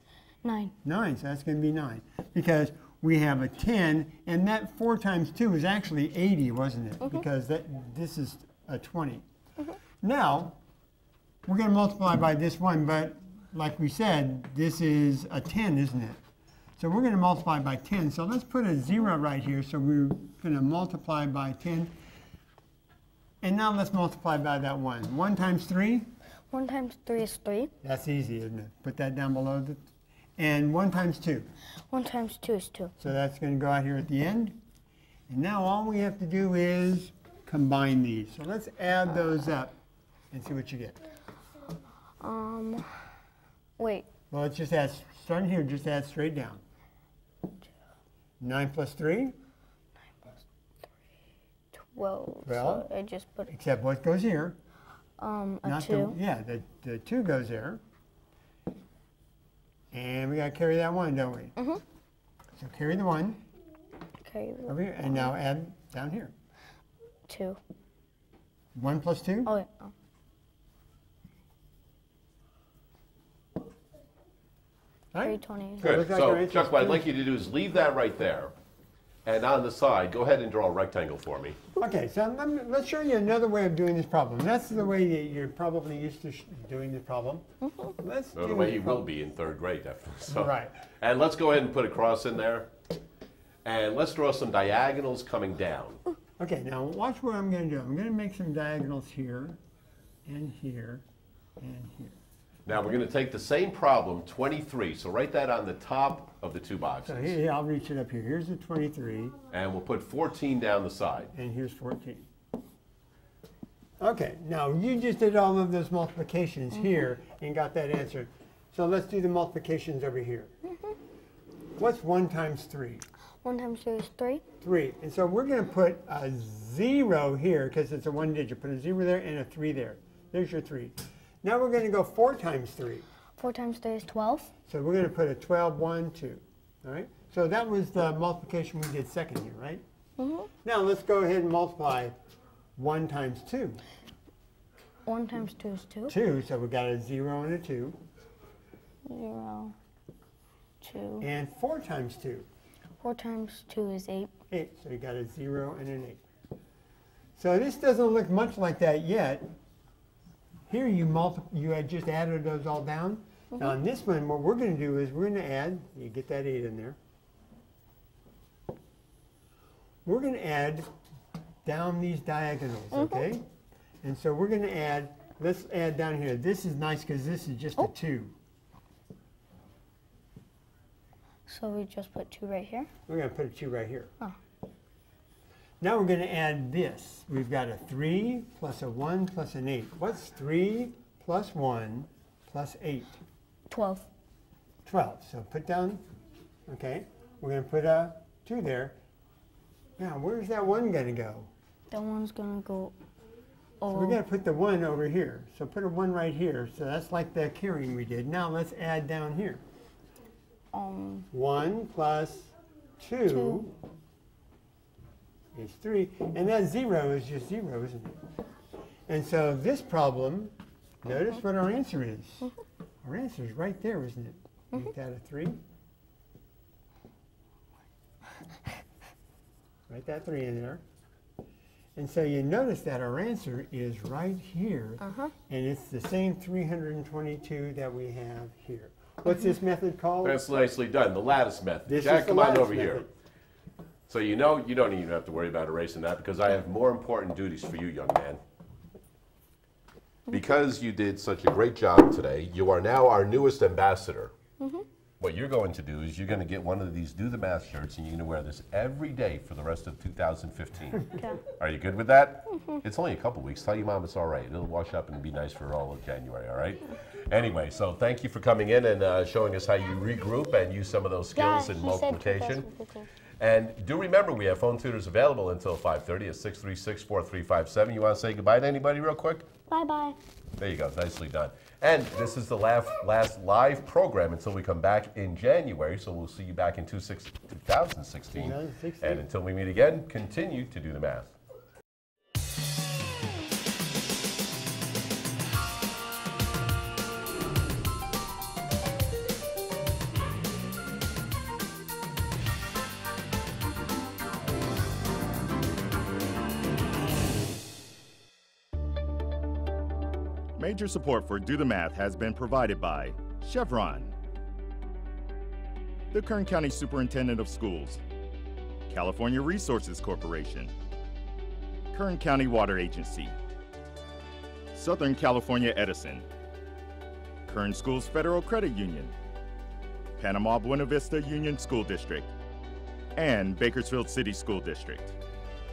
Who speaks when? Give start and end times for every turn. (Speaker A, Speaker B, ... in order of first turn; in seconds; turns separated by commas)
Speaker A: 0.4-0.7, Speaker B: 0.8-9.2, Speaker B: 10.0-10.6, Speaker B: 11.5-16.2, Speaker B: 16.8-21.9, Speaker B: 23.4-26.1, Speaker A: 26.5-27.7, Speaker B: 27.8-29.8, Speaker B: 30.4-31.5, Speaker A: 31.9-32.9, Speaker B: 33.0-34.6, Speaker B: 35.3-39.7, Speaker B: 40.3-41.0, Speaker A: 42.2-43.1, Speaker A: 43.8-44.1, Speaker B: 44.3-46.6, Speaker B: 48.4-49.4, Speaker A: 51.7-53.5, Speaker B: 52.4-52.9, Speaker B: 53.5-54.6, Speaker A: 55.2-56.2, Speaker B: 55.6-57.8, Speaker B: 59.9-61.5, Speaker A: 61.6-61.8, Speaker B: 62.6-63.4, Speaker A: 64.2-65.3, Speaker B: 64.7-66.3, Speaker A: 67.3-67.6, Speaker B: 68.7-69.5, Speaker A: 69.4-69.9, Speaker B: 75.1-77.1, Speaker A: 75.2-75.9, Speaker C: 75.8-78.5, Speaker C: 79.2-81.6, Speaker B: 81.8-87.5, Speaker B: 88.0-89.0, Speaker C: 88.3-92.7, Speaker B: 90.3-90.8, Speaker C: 93.6-96.0, Speaker B: 96.4-99.6, Speaker B: 100.2-101.0, Speaker B: 101.6-102.2, Speaker C: 102.7-107.4, Speaker B: 107.0-109.4, Speaker C: 109.5-111.3, Speaker B: 111.3-112.3, Speaker B: 114.0-120.5, Speaker B: 121.8-123.0, Speaker A: 123.4-124.4, Speaker B: 124.6-133.1, Speaker A: 133.4-134.5, Speaker B: 134.7-139.8, Speaker A: 140.2-140.5, Speaker B: 140.6-142.2, Speaker B: 142.8-143.8, Speaker A: 145.1-146.2, Speaker B: 146.1-148.0, Speaker A: 149.1-149.7, Speaker A: 150.8-151.2, Speaker B: 151.2-152.5, Speaker A: 153.0-154.3, Speaker B: 154.5-156.2, Speaker B: 157.4-159.5, Speaker B: 160.7-167.0, Speaker B: 170.0-170.9, Speaker B: 171.6-173.4, Speaker A: 172.9-173.2, Speaker B: 174.0-178.3, Speaker A: 181.5-182.9, Speaker B: 183.1-184.1, Speaker B: 185.8-193.2, Speaker A: 193.7-194.1, Speaker B: 194.8-196.0, Speaker B: 196.7-199.0, Speaker B: 200.0-201.5, Speaker A: 201.9-202.9, Speaker A: 203.8-204.2, Speaker B: 203.9-209.6, Speaker A: 210.7-211.2, Speaker B: 211.3-213.8, Speaker A: 213.2-213.6, Speaker B: 215.5-218.3, Speaker B: 219.1-222.5, Speaker B: 223.0-225.6, Speaker B: 229.9-230.8, Speaker B: 231.9-240.4, Speaker A: 235.0-235.3, Speaker C: 240.2-243.1, Speaker B: 241.9-243.1, Speaker C: 244.1-248.4, Speaker C: 250.3-254.3, Speaker A: 254.6-254.8, Speaker C: 255.2-272.7, Speaker A: 271.3-273.1, Speaker C: 273.4-279.5, Speaker A: 279.7-280.2, Speaker C: 280.6-291.4, Speaker B: 288.3-289.2, Speaker D: 310.6-314.1, Speaker D: 316.1-318.0, Speaker D: 318.9-320.7, Speaker D: 321.9-323.3, Speaker D: 324.7-326.3, Speaker D: 327.4-329.1, Speaker D: 330.2-332.3, Speaker D: 333.1-335.2